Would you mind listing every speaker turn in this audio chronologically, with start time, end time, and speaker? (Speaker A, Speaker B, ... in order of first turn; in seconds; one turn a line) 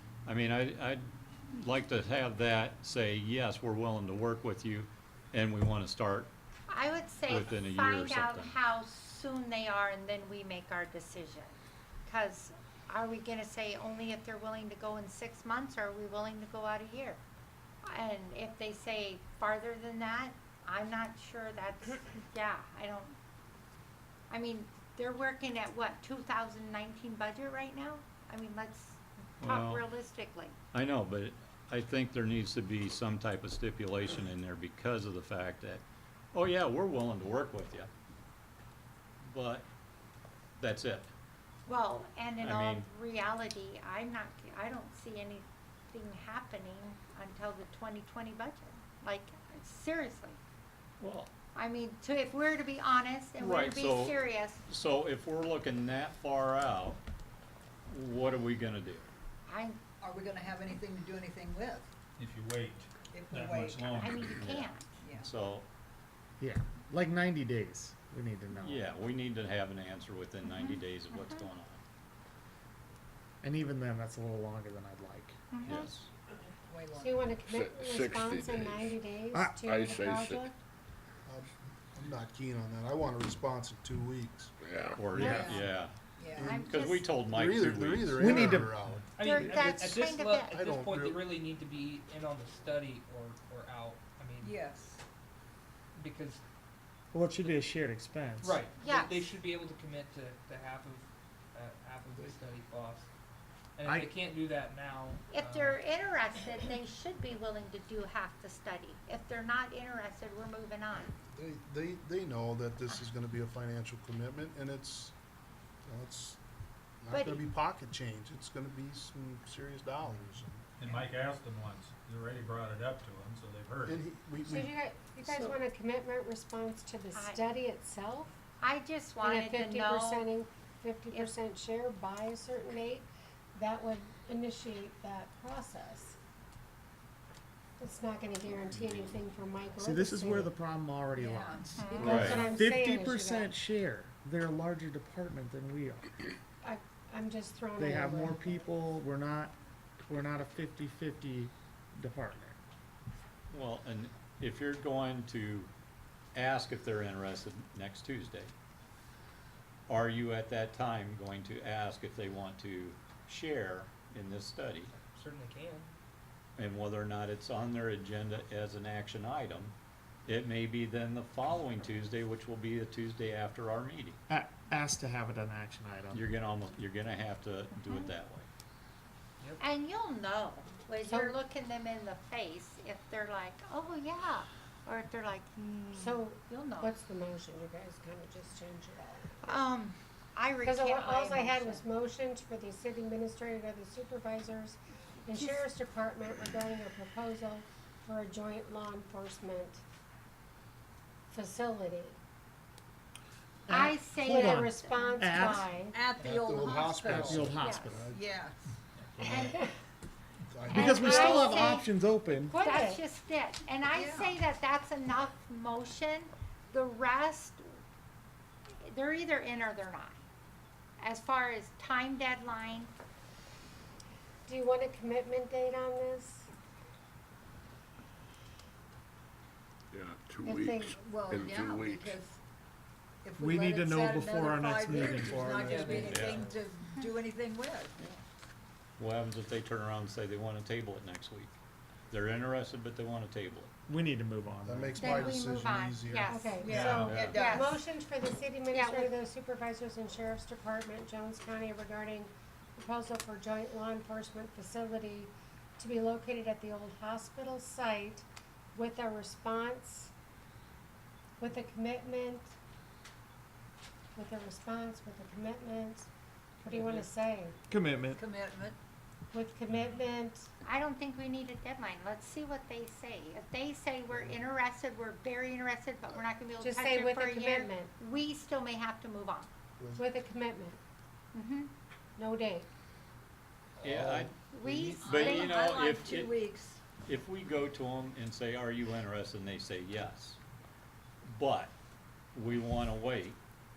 Speaker A: 0.2-6.3
Speaker B: 6.7-17.2
Speaker A: 7.3-8.5
Speaker B: 17.8-23.1
Speaker B: 24.3-30.6
Speaker A: 29.4-29.9
Speaker A: 30.7-35.8
Speaker A: 36.3-37.9
Speaker A: 39.2-39.6
Speaker A: 40.6-41.1
Speaker B: 41.7-50.4
Speaker A: 42.4-42.9
Speaker A: 51.0-51.3
Speaker B: 51.5-54.6
Speaker A: 53.4-57.0
Speaker A: 57.9-59.1
Speaker B: 59.5-59.8
Speaker C: 60.0-61.9
Speaker D: 62.2-64.3
Speaker C: 63.1-64.1
Speaker B: 64.0-64.9
Speaker A: 64.1-65.6
Speaker C: 65.0-65.3
Speaker E: 66.4-68.8
Speaker A: 68.5-71.8
Speaker B: 70.4-71.5
Speaker E: 73.4-75.4
Speaker B: 75.5-75.9
Speaker A: 75.6-76.1
Speaker C: 76.5-77.5
Speaker F: 76.9-80.5
Speaker G: 77.5-79.0
Speaker E: 79.3-79.6
Speaker G: 79.6-80.5
Speaker H: 81.2-84.5
Speaker G: 84.6-85.1
Speaker A: 85.0-85.9
Speaker E: 85.1-85.5
Speaker C: 85.1-86.5
Speaker B: 86.3-87.1
Speaker H: 86.3-89.9
Speaker A: 86.5-88.5
Speaker E: 88.2-88.7
Speaker I: 89.1-94.6
Speaker B: 89.2-90.6
Speaker H: 90.5-91.3
Speaker C: 94.4-95.0
Speaker I: 95.9-96.4
Speaker E: 97.1-98.6
Speaker I: 98.4-103.0
Speaker B: 98.8-99.3
Speaker I: 103.8-105.8
Speaker B: 105.3-111.1
Speaker H: 111.3-115.1
Speaker H: 115.8-116.4
Speaker H: 117.0-120.6
Speaker B: 117.1-117.4
Speaker D: 120.8-124.0
Speaker H: 123.8-125.6
Speaker F: 124.4-128.3
Speaker B: 127.1-127.5
Speaker B: 128.6-130.3
Speaker F: 129.2-136.2
Speaker F: 137.8-140.5
Speaker E: 139.8-146.1
Speaker C: 141.2-142.5
Speaker B: 141.8-142.3
Speaker F: 142.0-143.5
Speaker A: 142.0-142.5
Speaker F: 146.6-148.7
Speaker E: 147.8-152.6
Speaker A: 153.5-155.7
Speaker A: 156.3-158.5
Speaker A: 159.9-164.9
Speaker I: 164.9-165.9
Speaker A: 166.6-169.7
Speaker A: 170.2-174.2
Speaker E: 174.3-176.3
Speaker A: 176.1-178.5
Speaker B: 177.8-178.1
Speaker B: 179.6-186.9
Speaker F: 181.1-181.4
Speaker F: 185.9-189.6
Speaker B: 189.4-191.8
Speaker F: 190.6-199.8
Speaker B: 195.3-195.7
Speaker F: 201.3-202.2
Speaker E: 203.7-205.6
Speaker B: 203.7-205.7
Speaker F: 204.2-206.0
Speaker C: 205.9-207.4
Speaker H: 206.2-208.3
Speaker E: 207.0-208.1
Speaker B: 207.6-208.0
Speaker C: 208.1-208.7
Speaker H: 209.2-209.5
Speaker B: 209.2-209.6
Speaker F: 209.3-209.7
Speaker H: 210.4-211.5
Speaker E: 210.7-212.5
Speaker B: 210.7-211.9
Speaker F: 210.9-211.8
Speaker F: 212.5-213.0
Speaker B: 212.5-217.8
Speaker C: 213.9-214.4
Speaker B: 218.8-220.2
Speaker B: 221.0-222.9
Speaker F: 224.4-226.5
Speaker G: 229.9-232.2
Speaker F: 230.4-230.9
Speaker C: 230.9-232.4
Speaker C: 233.2-237.9
Speaker E: 233.4-236.3
Speaker I: 235.6-236.2
Speaker A: 235.9-236.5
Speaker A: 239.0-241.6
Speaker A: 242.1-243.7
Speaker E: 243.9-245.2
Speaker H: 244.7-246.4
Speaker B: 245.0-246.6
Speaker F: 246.3-260.1
Speaker C: 246.5-247.8
Speaker D: 246.7-247.1
Speaker A: 246.9-247.4
Speaker B: 247.3-247.8
Speaker B: 248.7-249.1
Speaker F: 261.4-262.5
Speaker F: 264.1-266.1
Speaker F: 266.6-267.6
Speaker E: 267.7-268.2
Speaker C: 268.1-268.8
Speaker F: 269.3-270.5
Speaker B: 270.6-279.5
Speaker H: 274.1-274.4
Speaker F: 276.6-277.9
Speaker H: 279.8-280.1
Speaker F: 280.0-280.8
Speaker B: 281.3-281.7
Speaker F: 282.2-282.7
Speaker A: 283.8-286.4
Speaker H: 283.8-284.3
Speaker B: 284.5-285.5
Speaker C: 285.0-286.8
Speaker A: 287.0-290.4
Speaker A: 291.2-291.7
Speaker A: 292.3-293.4